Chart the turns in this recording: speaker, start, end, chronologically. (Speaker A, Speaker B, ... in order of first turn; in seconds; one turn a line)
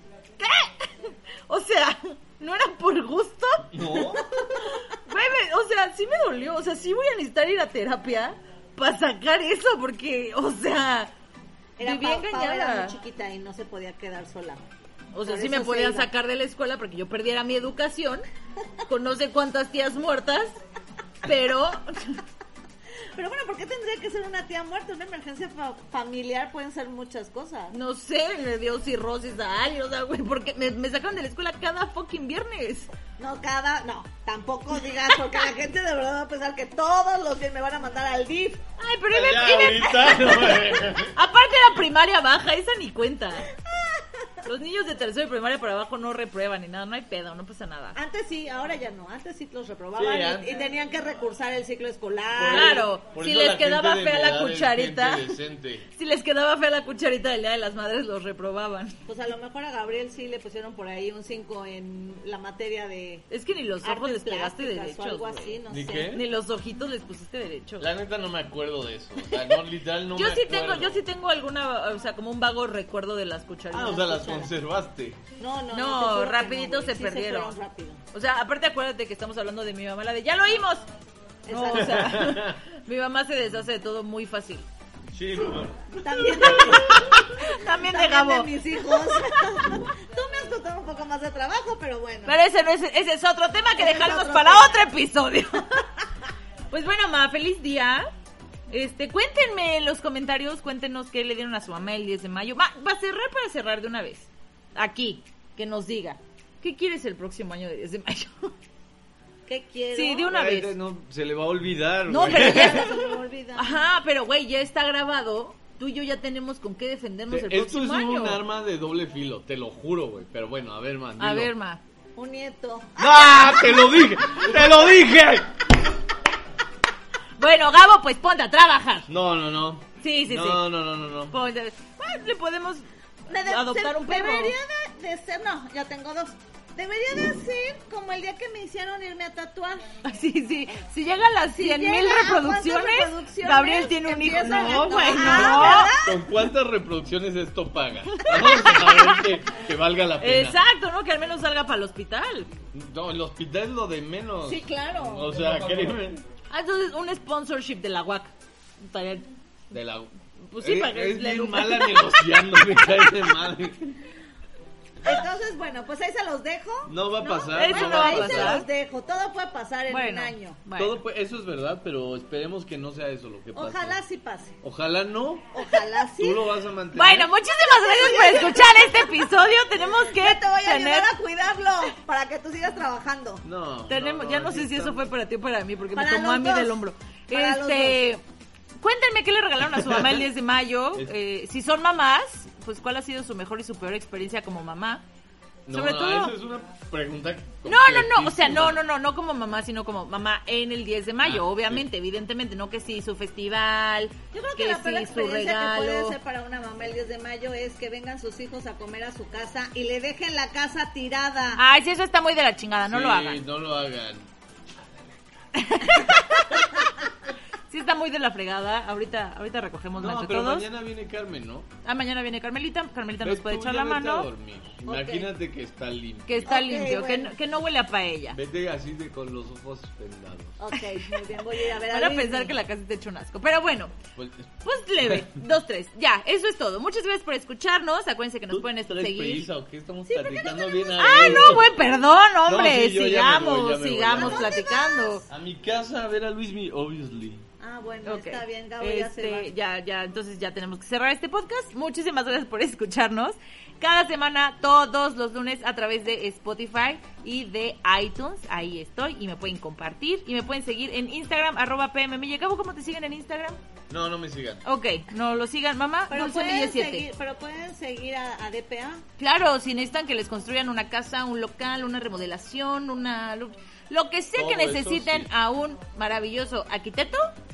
Speaker A: 0.4-3.7
Speaker B: 3.7-4.6
Speaker C: 4.1-4.8
Speaker A: 5.0-11.1
Speaker C: 11.8-14.6
Speaker A: 11.8-12.9
Speaker A: 15.1-18.2
Speaker C: 15.2-16.1
Speaker A: 18.9-20.6
Speaker A: 21.2-22.2
Speaker C: 23.1-27.7
Speaker A: 27.7-32.9
Speaker C: 33.2-38.6
Speaker A: 38.8-43.5
Speaker B: 39.1-41.1
Speaker C: 43.7-44.3
Speaker A: 44.4-48.0
Speaker C: 47.9-52.9
Speaker B: 50.0-50.6
Speaker B: 52.3-55.9
Speaker A: 52.5-55.4
Speaker A: 55.9-59.0
Speaker C: 59.1-63.3
Speaker A: 63.3-67.9
Speaker C: 63.8-66.2
Speaker B: 65.7-66.2
Speaker B: 67.8-71.0
Speaker A: 69.3-69.6
Speaker A: 70.1-74.4
Speaker B: 73.7-75.2
Speaker C: 75.4-78.0
Speaker A: 75.7-77.5
Speaker A: 78.1-80.8
Speaker C: 81.5-82.2
Speaker A: 81.5-84.7
Speaker B: 81.7-82.6
Speaker B: 85.1-87.1
Speaker C: 86.0-92.4
Speaker A: 86.3-89.8
Speaker A: 92.2-95.9
Speaker C: 93.8-94.8
Speaker A: 96.7-98.1
Speaker A: 98.7-108.5
Speaker C: 109.5-110.3
Speaker A: 109.9-110.7
Speaker B: 110.3-112.9
Speaker A: 112.1-113.0
Speaker C: 112.2-113.8
Speaker A: 113.6-118.4
Speaker B: 117.3-121.5
Speaker A: 121.2-121.8
Speaker C: 122.2-124.1
Speaker B: 123.0-125.5
Speaker A: 127.4-129.1
Speaker B: 129.1-131.4
Speaker A: 130.0-130.7
Speaker A: 131.2-134.5
Speaker C: 133.3-139.8
Speaker A: 140.0-145.9
Speaker C: 141.6-146.2
Speaker B: 144.9-150.6
Speaker A: 148.1-149.2
Speaker A: 150.2-152.5
Speaker B: 152.7-156.2
Speaker C: 154.4-155.6
Speaker A: 156.5-159.3
Speaker B: 159.7-164.0
Speaker A: 160.4-162.2
Speaker C: 165.0-170.6
Speaker B: 166.8-168.6
Speaker A: 167.6-168.7
Speaker A: 169.9-171.0
Speaker B: 170.8-174.0
Speaker C: 173.5-174.6
Speaker B: 174.6-175.5
Speaker C: 175.5-176.5
Speaker B: 176.2-177.3
Speaker A: 176.9-181.1
Speaker C: 177.6-183.4
Speaker B: 183.4-185.1
Speaker A: 183.9-188.2
Speaker C: 185.9-188.1
Speaker A: 188.8-195.0
Speaker B: 189.7-190.2
Speaker B: 195.7-198.8
Speaker A: 195.7-196.3
Speaker A: 197.6-206.2
Speaker B: 201.2-201.8
Speaker C: 204.3-211.6
Speaker A: 211.6-213.4
Speaker B: 212.9-214.3
Speaker A: 215.5-216.7
Speaker A: 217.7-220.7
Speaker B: 220.0-221.7
Speaker A: 221.8-224.3
Speaker B: 223.2-226.5
Speaker C: 224.8-225.3
Speaker A: 226.2-228.4
Speaker C: 226.5-227.3
Speaker B: 228.3-230.6
Speaker C: 230.6-232.5
Speaker A: 231.8-233.9
Speaker B: 234.2-235.4
Speaker A: 234.6-239.4
Speaker B: 238.5-241.7
Speaker C: 240.1-241.6
Speaker A: 241.0-245.2
Speaker B: 242.4-244.5
Speaker C: 244.1-245.2
Speaker B: 245.3-247.5
Speaker C: 247.6-249.5
Speaker A: 248.0-263.6
Speaker B: 263.9-264.6
Speaker A: 264.6-267.0
Speaker C: 266.1-269.0
Speaker A: 269.2-277.3
Speaker B: 274.3-275.3